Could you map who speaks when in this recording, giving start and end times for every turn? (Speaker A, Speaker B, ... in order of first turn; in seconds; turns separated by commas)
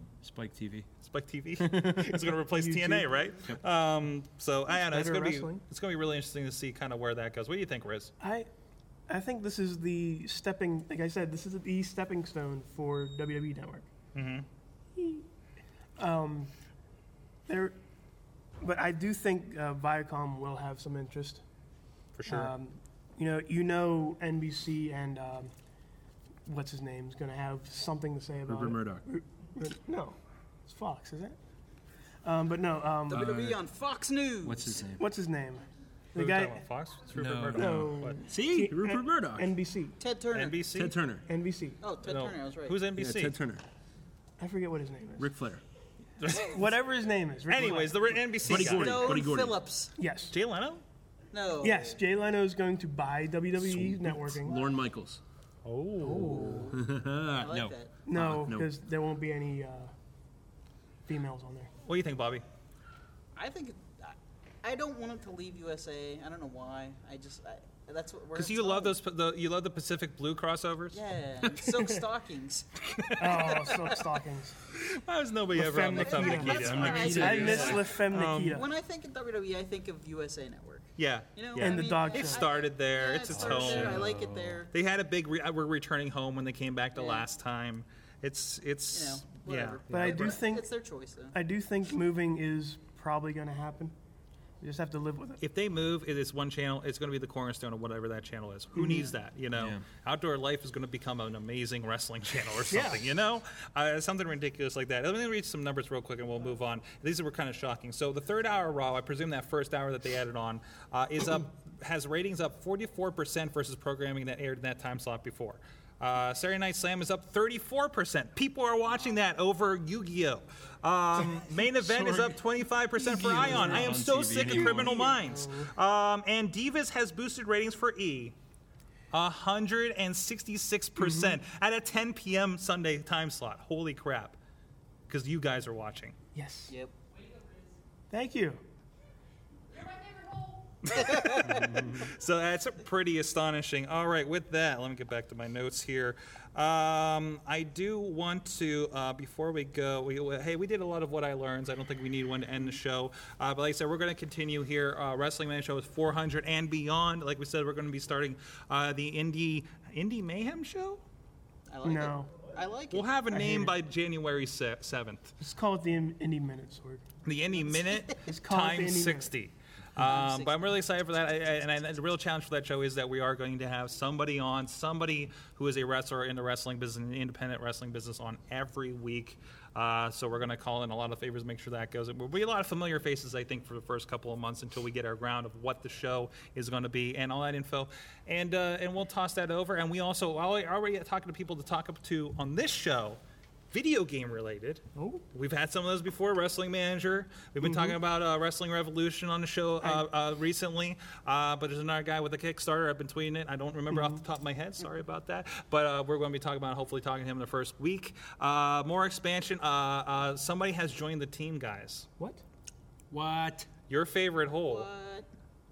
Speaker A: 0.2-0.9, Speaker B: 1.0-8.1, Speaker A: 1.6-2.2, Speaker C: 2.5-3.3, Speaker C: 4.7-5.6, Speaker C: 8.2-8.5, Speaker C: 9.1-13.9, Speaker B: 14.2-14.5, Speaker C: 15.0-15.2, Speaker C: 16.0-16.5, Speaker C: 17.5-17.8, Speaker C: 18.6-21.4, Speaker B: 22.2-22.5, Speaker C: 22.3-25.5, Speaker C: 26.5-31.4, Speaker A: 28.5-29.1, Speaker C: 32.2-33.3, Speaker D: 33.1-34.8, Speaker A: 33.1-33.6, Speaker A: 34.4-35.1, Speaker C: 35.0-36.6, Speaker B: 36.1-38.2, Speaker A: 37.1-39.5, Speaker C: 37.5-40.0, Speaker D: 40.0-40.6, Speaker B: 40.3-41.0, Speaker A: 40.7-41.2, Speaker C: 41.3-41.8, Speaker D: 41.8-42.8, Speaker B: 42.0-43.4, Speaker A: 43.0-43.6, Speaker C: 44.4-45.3, Speaker A: 45.2-45.6, Speaker B: 46.2-46.6, Speaker C: 46.3-48.2, Speaker B: 47.5-49.2, Speaker A: 48.4-49.6, Speaker D: 48.5-49.9, Speaker C: 50.0-50.3, Speaker B: 50.3-50.8, Speaker D: 51.3-52.0, Speaker C: 51.6-54.6, Speaker A: 53.6-55.2, Speaker B: 55.6-56.6, Speaker C: 56.0-56.8, Speaker A: 56.0-58.8, Speaker D: 57.4-57.9, Speaker C: 58.1-59.9, Speaker C: 61.1-61.7, Speaker B: 61.9-62.4, Speaker D: 63.4-69.0, Speaker B: 68.3-71.0, Speaker D: 70.9-72.7, Speaker C: 71.7-72.0, Speaker B: 73.0-73.9, Speaker C: 73.2-74.6, Speaker B: 74.7-78.6, Speaker C: 75.5-78.7, Speaker D: 76.0-77.9, Speaker A: 76.3-77.9, Speaker D: 78.5-84.7, Speaker B: 81.0-84.1, Speaker C: 81.6-82.5, Speaker A: 83.3-84.7, Speaker B: 84.7-90.3, Speaker D: 87.0-87.3, Speaker D: 88.9-91.3, Speaker C: 89.9-90.7, Speaker C: 91.3-93.9, Speaker C: 94.6-95.4, Speaker B: 95.4-128.3, Speaker C: 98.8-99.1, Speaker A: 99.6-99.8, Speaker C: 102.7-103.0, Speaker A: 121.8-122.4, Speaker A: 123.0-125.0, Speaker C: 123.0-125.7, Speaker B: 129.1-134.4, Speaker C: 131.0-131.3, Speaker B: 135.1-136.2, Speaker C: 136.3-136.7, Speaker E: 137.1-137.8, Speaker C: 138.1-138.6, Speaker E: 139.7-141.0, Speaker B: 140.8-161.0, Speaker D: 141.0-141.3, Speaker A: 141.4-142.1, Speaker D: 161.7-163.1, Speaker C: 161.8-162.3, Speaker B: 162.9-165.3, Speaker C: 163.3-163.8, Speaker C: 165.4-167.0, Speaker B: 167.2-193.2, Speaker D: 167.7-168.1, Speaker C: 168.2-169.3, Speaker D: 170.0-170.6, Speaker B: 193.7-212.1, Speaker C: 195.0-195.2, Speaker C: 197.6-198.0, Speaker C: 203.9-204.2, Speaker A: 213.1-213.7, Speaker B: 213.9-214.9, Speaker D: 214.7-215.3